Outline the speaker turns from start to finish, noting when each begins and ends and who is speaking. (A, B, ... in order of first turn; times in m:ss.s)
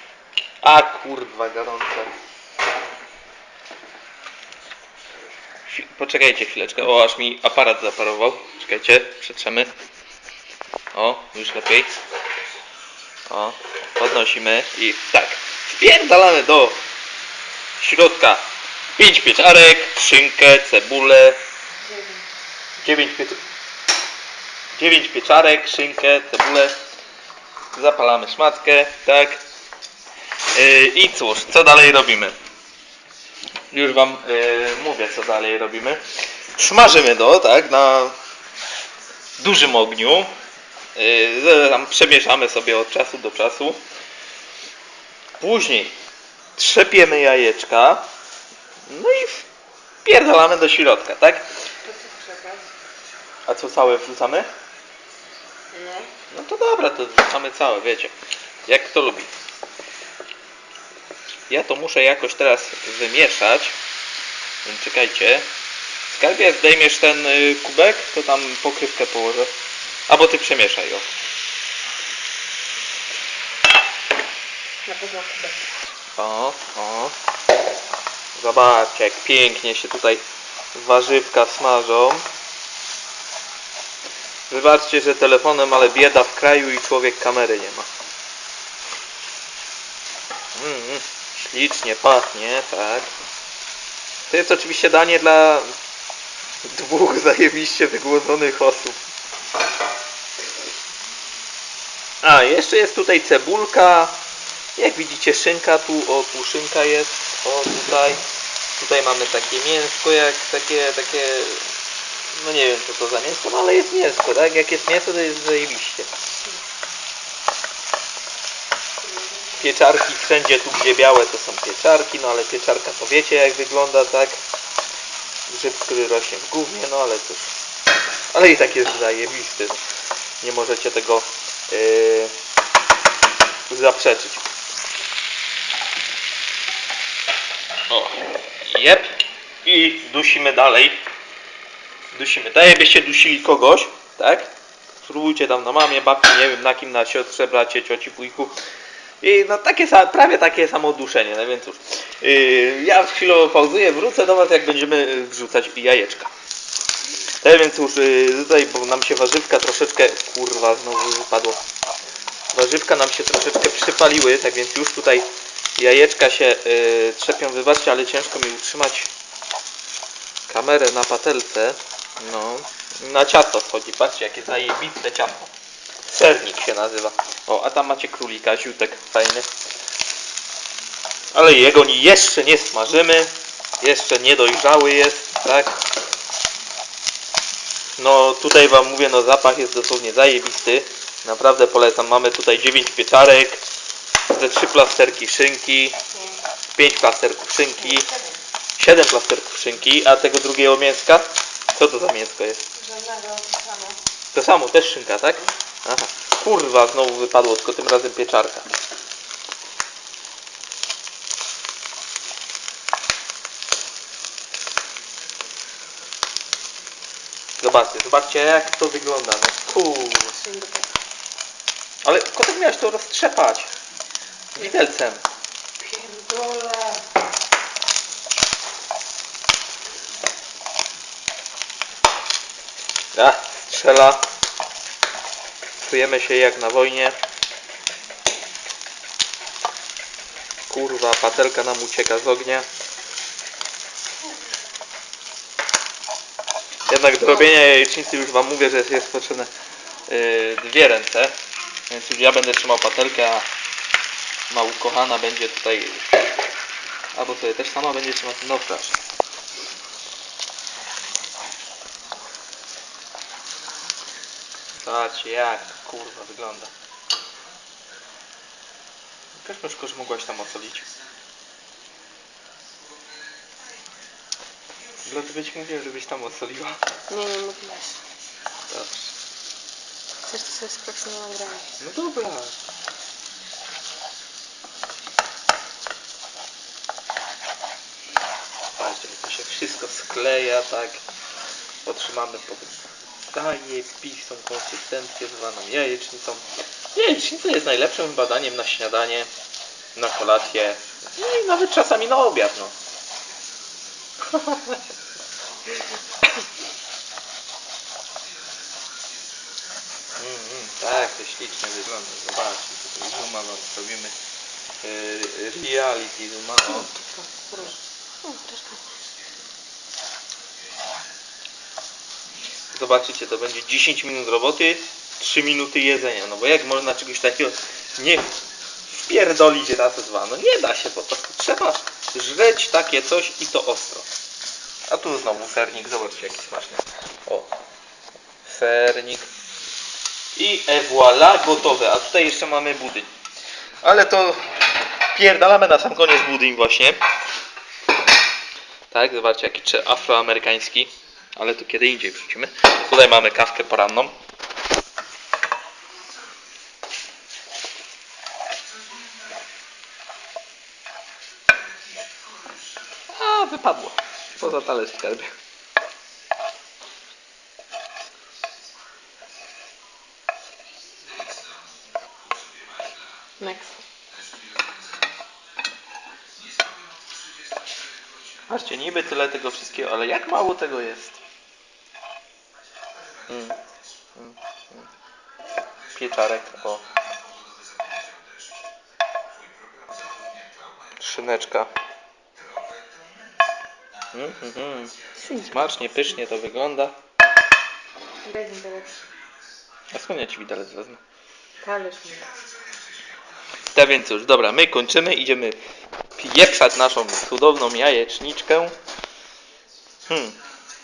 0:00.6-0:02.1 A
0:05.7-0:09.7 A
0:10.9-0:11.9 A
0:13.3-0:16.8 A
0:17.8-0:18.4 A
0:19.0-0:21.4 A
0:21.8-0:22.2 B
0:22.8-0:23.4 A
0:24.8-0:26.7 A
0:27.7-0:29.4 A
0:30.5-0:32.4 A
0:33.7-0:36.0 A
0:36.6-0:38.2 A
0:39.4-0:40.3 A
0:41.0-0:43.8 A
0:45.4-0:46.0 A
0:46.6-0:48.1 A
0:48.9-0:49.5 A
0:50.0-0:51.4 A
0:51.8-0:52.7 B
0:53.5-0:54.5 A
0:55.7-0:56.1 B
0:56.3-0:58.1 A
0:58.6-0:59.3 A
1:01.5-1:03.7 A
1:04.6-1:05.5 A
1:06.1-1:09.5 A
1:10.1-1:11.1 A
1:14.8-1:15.6 B
1:16.2-1:17.1 A
1:18.4-1:20.2 A
1:20.7-1:22.2 A
1:24.5-1:27.9 A
1:30.5-1:33.1 A
1:34.3-1:35.7 A
1:36.6-1:39.0 A
1:42.2-1:44.2 A
1:44.8-1:48.2 A
1:48.8-1:51.7 A
1:52.3-1:56.1 A
1:59.0-1:59.3 B
1:59.6-2:04.4 A
2:05.5-2:07.5 A
2:08.3-2:09.8 A
2:10.4-2:12.3 A
2:13.7-2:14.4 A
2:17.9-2:19.1 A
2:19.6-2:21.0 A
2:22.1-2:28.5 A
2:29.2-2:36.3 A
2:37.4-2:41.6 A
2:42.5-2:49.1 A
2:50.5-2:55.5 A
2:56.0-2:59.5 A
3:01.3-3:05.8 A
3:08.0-3:13.6 A
3:14.3-3:16.0 A
3:16.1-3:16.4 B
3:16.8-3:18.1 A
3:17.9-3:18.3 B
3:18.8-3:22.6 A
3:22.8-3:24.0 B
3:24.3-3:28.7 A
3:37.6-3:40.4 A
3:40.3-3:40.9 B
3:42.0-3:43.7 A
3:44.6-3:45.2 A
3:45.8-3:47.0 B
3:53.1-3:54.2 A
3:55.8-3:57.2 A
4:00.7-4:02.7 A
4:06.9-4:09.5 A
4:10.1-4:11.3 A
4:11.9-4:13.5 A
4:14.5-4:16.2 A
4:17.1-4:19.0 A
4:24.8-4:26.7 A
4:29.4-4:30.9 A
4:35.1-4:36.8 A
4:37.1-4:38.0 B
4:38.7-4:39.1 A
4:40.2-4:41.8 B
4:41.8-4:42.5 A
4:48.8-4:51.0 A
4:51.8-4:59.3 A
4:59.9-5:02.7 A
5:04.2-5:04.8 A
5:10.2-5:14.1 A
5:14.8-5:16.9 A
5:16.8-5:18.8 B
5:22.7-5:28.3 A
5:28.9-5:34.1 A
5:34.9-5:37.5 A
5:38.4-5:39.3 A
5:40.4-5:43.1 A
5:43.8-5:44.5 A
5:45.1-5:47.0 A
5:48.9-5:54.1 A
6:03.1-6:05.3 A
6:13.4-6:13.8 B
6:18.5-6:21.2 A
6:23.3-6:23.6 A
6:24.2-6:24.9 A
6:25.9-6:26.9 A
6:31.0-6:31.7 A
6:34.1-6:37.0 A
6:35.2-6:36.0 B
6:38.2-6:39.0 B
6:39.9-6:41.0 A
6:41.6-6:42.3 B
6:43.7-6:45.6 A
6:46.2-6:48.8 A
6:50.1-6:50.4 A